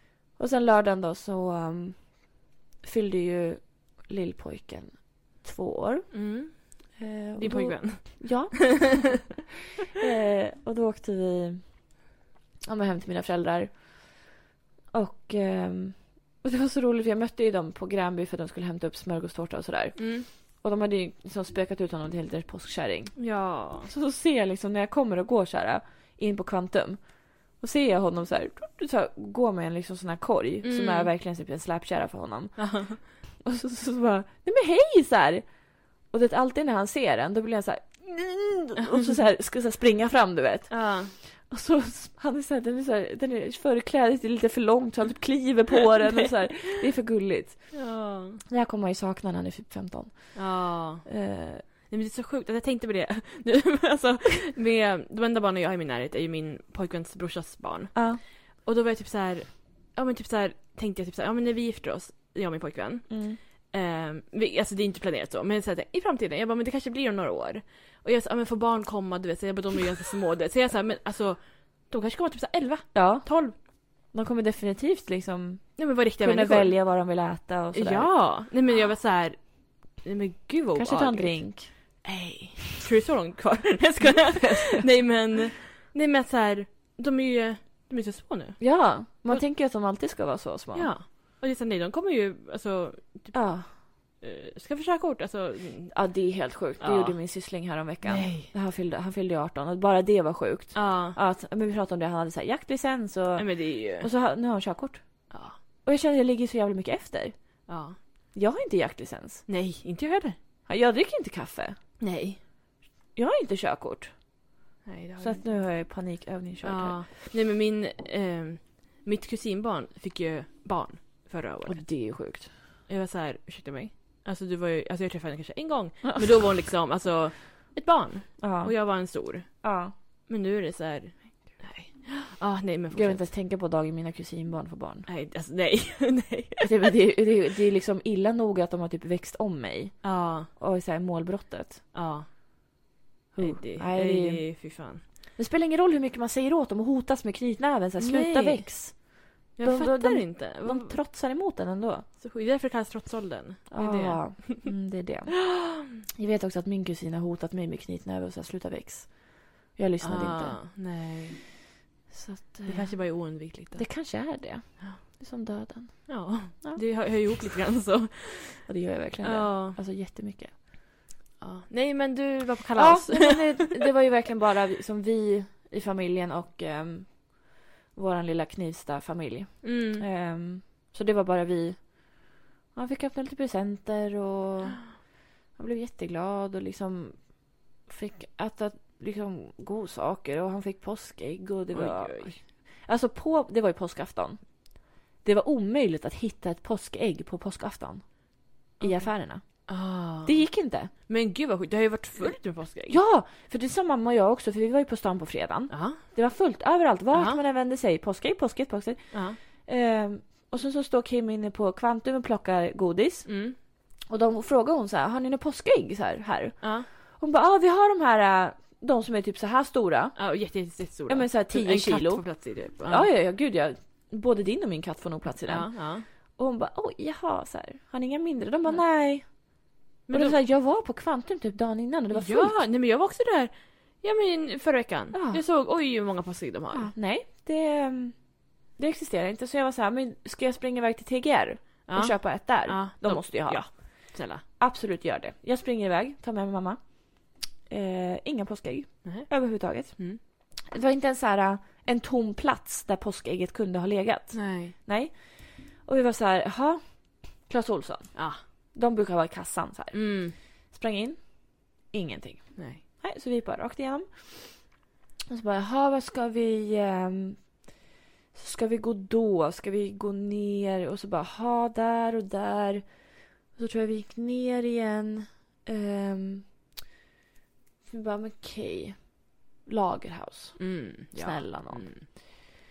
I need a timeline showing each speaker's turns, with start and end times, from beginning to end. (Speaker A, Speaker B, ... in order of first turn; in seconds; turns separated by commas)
Speaker A: 0.4-9.3, Speaker B: 6.1-8.6, Speaker A: 9.9-12.0, Speaker A: 12.6-14.2, Speaker A: 14.9-23.2, Speaker B: 20.0-20.3, Speaker B: 23.2-23.9, Speaker A: 23.8-51.6, Speaker B: 30.6-31.1, Speaker B: 32.6-33.0, Speaker B: 38.8-39.0, Speaker B: 40.7-41.1, Speaker B: 47.7-48.4, Speaker B: 50.3-51.1, Speaker B: 51.6-73.5, Speaker A: 57.9-58.2, Speaker A: 63.1-63.4, Speaker A: 72.9-78.1, Speaker B: 75.8-76.8, Speaker B: 77.7-81.4, Speaker A: 80.7-81.7, Speaker B: 82.0-89.4, Speaker A: 84.0-84.8, Speaker A: 88.6-90.9, Speaker B: 90.7-95.9, Speaker A: 93.3-93.7, Speaker A: 95.9-105.3, Speaker B: 96.8-97.3, Speaker B: 98.0-98.5, Speaker B: 100.7-101.2, Speaker B: 103.4-104.1, Speaker B: 105.3-105.6, Speaker A: 105.8-107.5, Speaker B: 107.7-108.0, Speaker A: 108.3-109.4, Speaker B: 109.5-110.4, Speaker A: 110.7-111.8, Speaker B: 112.0-112.4, Speaker A: 113.1-114.2, Speaker B: 114.8-115.5, Speaker A: 115.2-117.1, Speaker B: 116.6-121.9, Speaker A: 121.7-122.5, Speaker B: 122.9-129.6, Speaker A: 128.4-129.1, Speaker A: 129.6-129.9, Speaker B: 130.3-133.3, Speaker A: 132.9-135.1, Speaker B: 135.1-136.9, Speaker A: 136.6-141.8, Speaker B: 140.0-140.5, Speaker B: 141.9-142.3, Speaker A: 143.3-144.6, Speaker B: 143.4-145.0, Speaker A: 145.3-152.1, Speaker B: 148.0-149.0, Speaker B: 149.5-151.0, Speaker B: 152.2-154.7, Speaker A: 153.7-155.4, Speaker A: 156.2-160.6, Speaker B: 160.0-161.4, Speaker A: 162.1-166.8, Speaker B: 162.7-163.9, Speaker B: 166.1-168.7, Speaker A: 168.7-170.5, Speaker B: 169.2-169.8, Speaker B: 171.4-173.7, Speaker A: 172.8-200.9, Speaker B: 179.6-180.0, Speaker B: 191.7-192.4, Speaker B: 198.8-203.0, Speaker A: 202.9-220.2, Speaker B: 205.7-206.0, Speaker B: 207.1-207.4, Speaker B: 209.1-209.4, Speaker B: 213.2-213.6, Speaker B: 216.6-216.9, Speaker B: 220.2-223.1, Speaker A: 221.1-232.6, Speaker B: 225.4-226.1, Speaker B: 230.1-230.3, Speaker B: 232.1-236.9, Speaker A: 235.1-235.4, Speaker A: 236.7-258.2, Speaker B: 241.8-244.4, Speaker B: 249.0-250.2, Speaker B: 254.3-254.7, Speaker B: 258.1-258.4, Speaker A: 258.7-264.7, Speaker B: 259.9-260.4, Speaker B: 262.6-262.8, Speaker A: 265.3-267.7, Speaker A: 268.3-276.5, Speaker A: 277.9-282.3, Speaker B: 280.6-282.0